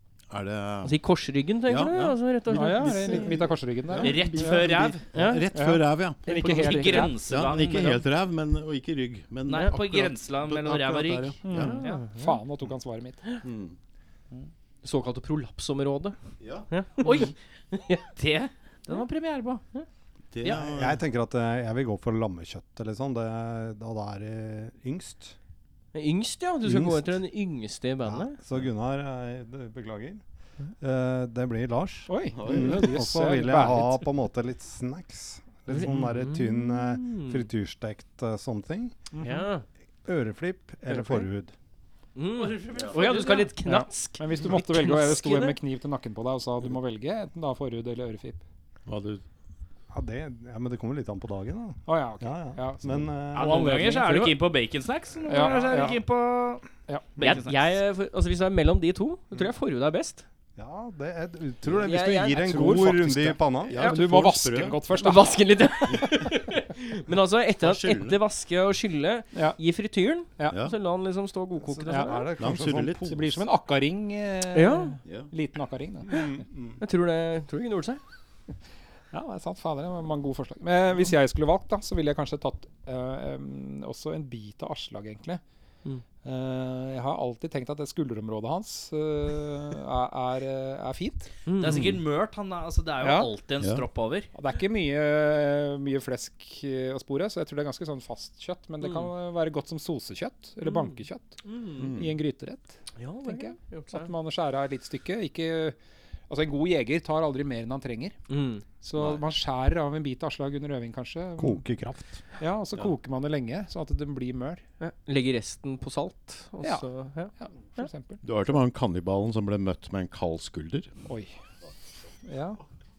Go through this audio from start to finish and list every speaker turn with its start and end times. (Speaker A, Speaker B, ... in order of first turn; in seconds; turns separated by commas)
Speaker A: 0.3-1.0, Speaker B: 0.8-3.5, Speaker A: 1.6-11.8, Speaker C: 2.5-4.9, Speaker D: 4.0-5.0, Speaker B: 5.1-5.5, Speaker C: 5.5-7.2, Speaker B: 6.3-7.1, Speaker D: 6.4-8.0, Speaker D: 9.5-12.0, Speaker C: 11.4-13.2, Speaker B: 11.5-12.4, Speaker A: 13.4-13.8, Speaker B: 14.8-16.1, Speaker A: 16.4-16.7, Speaker B: 16.7-18.1, Speaker D: 17.0-17.3, Speaker D: 18.0-19.6, Speaker A: 20.3-21.0, Speaker E: 20.4-25.4, Speaker B: 25.9-28.4, Speaker E: 26.6-27.1, Speaker E: 28.0-30.2, Speaker E: 30.8-39.0, Speaker C: 32.1-34.1, Speaker A: 32.3-32.8, Speaker B: 35.7-37.5, Speaker C: 39.1-39.5, Speaker B: 39.2-39.6, Speaker E: 40.0-41.5, Speaker B: 42.1-45.6, Speaker D: 42.3-43.5, Speaker C: 43.6-48.4, Speaker A: 48.9-49.2, Speaker E: 49.9-53.8, Speaker C: 51.9-54.4, Speaker D: 53.3-57.7, Speaker C: 55.3-56.0, Speaker C: 56.9-57.4, Speaker B: 57.2-60.2, Speaker E: 60.6-63.8, Speaker B: 61.8-63.0, Speaker C: 62.4-65.4, Speaker A: 62.6-62.9, Speaker A: 63.7-64.8, Speaker B: 63.7-64.0, Speaker B: 64.9-72.3, Speaker A: 67.6-68.2, Speaker C: 69.3-69.6, Speaker A: 70.5-70.7, Speaker E: 71.6-73.4, Speaker C: 71.8-72.3, Speaker A: 72.4-73.1, Speaker C: 73.0-76.1, Speaker B: 74.5-75.0, Speaker A: 75.0-75.3, Speaker E: 76.1-76.8, Speaker B: 76.8-78.0, Speaker C: 79.1-85.4, Speaker C: 86.2-91.3, Speaker B: 91.5-91.9, Speaker D: 91.5-94.3, Speaker A: 91.6-92.0, Speaker C: 93.0-93.3, Speaker C: 94.3-105.8, Speaker B: 98.8-99.1, Speaker B: 100.6-100.9, Speaker B: 101.4-101.9, Speaker A: 101.8-102.2, Speaker B: 103.0-104.1, Speaker C: 106.3-108.2, Speaker B: 108.3-108.6, Speaker C: 108.8-111.6, Speaker E: 111.4-112.2, Speaker C: 112.4-114.6, Speaker B: 114.8-117.9, Speaker C: 116.6-116.9, Speaker C: 117.4-118.2, Speaker A: 118.2-120.9, Speaker C: 121.1-121.3, Speaker C: 122.2-122.6